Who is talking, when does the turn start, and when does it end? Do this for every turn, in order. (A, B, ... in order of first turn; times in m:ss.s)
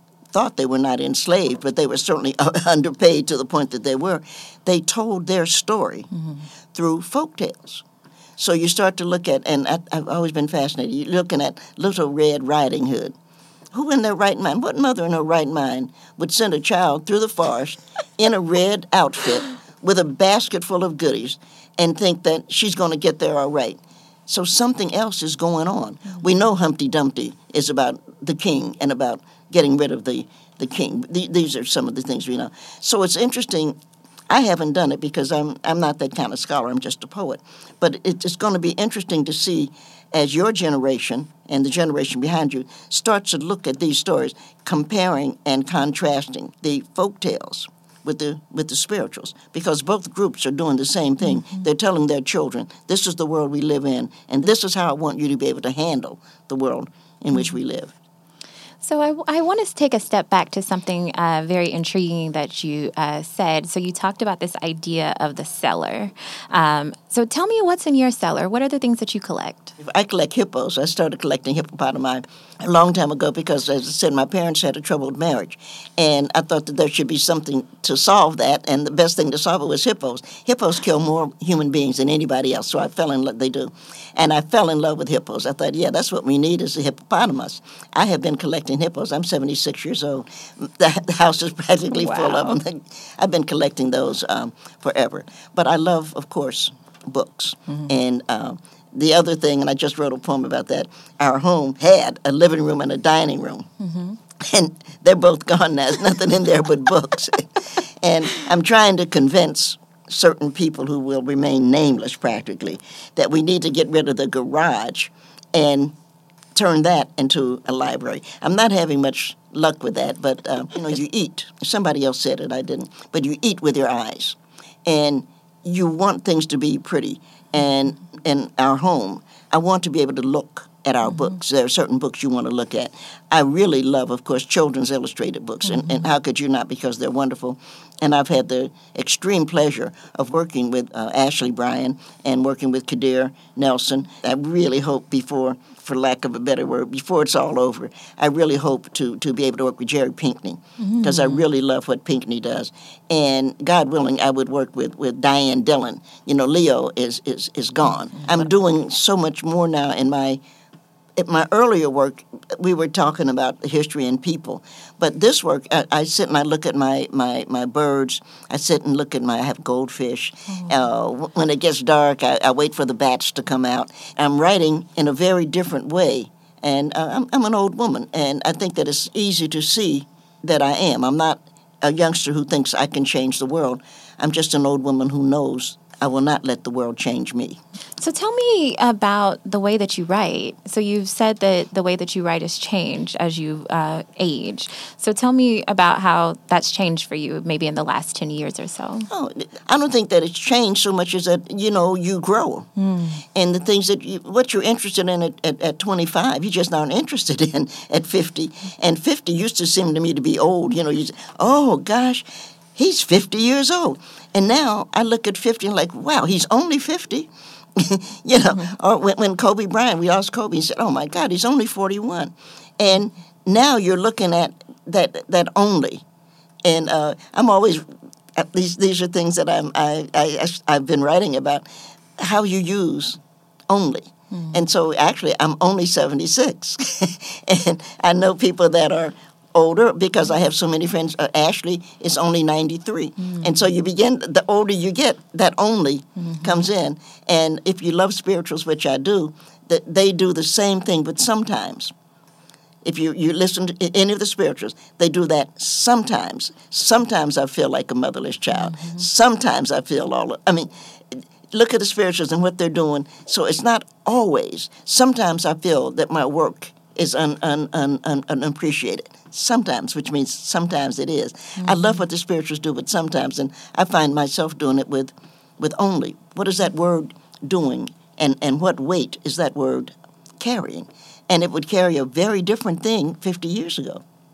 0:00.3-0:06.1 A
0:06.7-0:07.8 A
0:08.4-0:13.2 A
0:13.7-0:33.8 A
0:34.3-0:57.9 A
0:51.2-0:51.6 B
0:57.3-0:57.6 B
0:58.8-1:09.7 B
1:09.8-1:43.7 A
1:31.9-1:32.6 B
1:43.8-1:44.1 B
1:44.4-1:55.9 A
1:56.5-2:40.4 A
2:15.6-2:16.0 B
2:30.8-2:31.4 B
2:41.2-3:07.6 A
3:08.0-3:19.1 B
3:19.1-3:22.7 A
3:22.8-3:23.2 B
3:23.3-3:46.0 A
3:46.6-3:51.7 A
3:52.2-4:11.9 A
3:54.3-3:54.6 B
4:03.2-4:03.6 B
4:06.2-4:06.7 B
4:12.8-4:44.0 A
4:18.5-4:19.0 B
4:31.6-4:32.0 B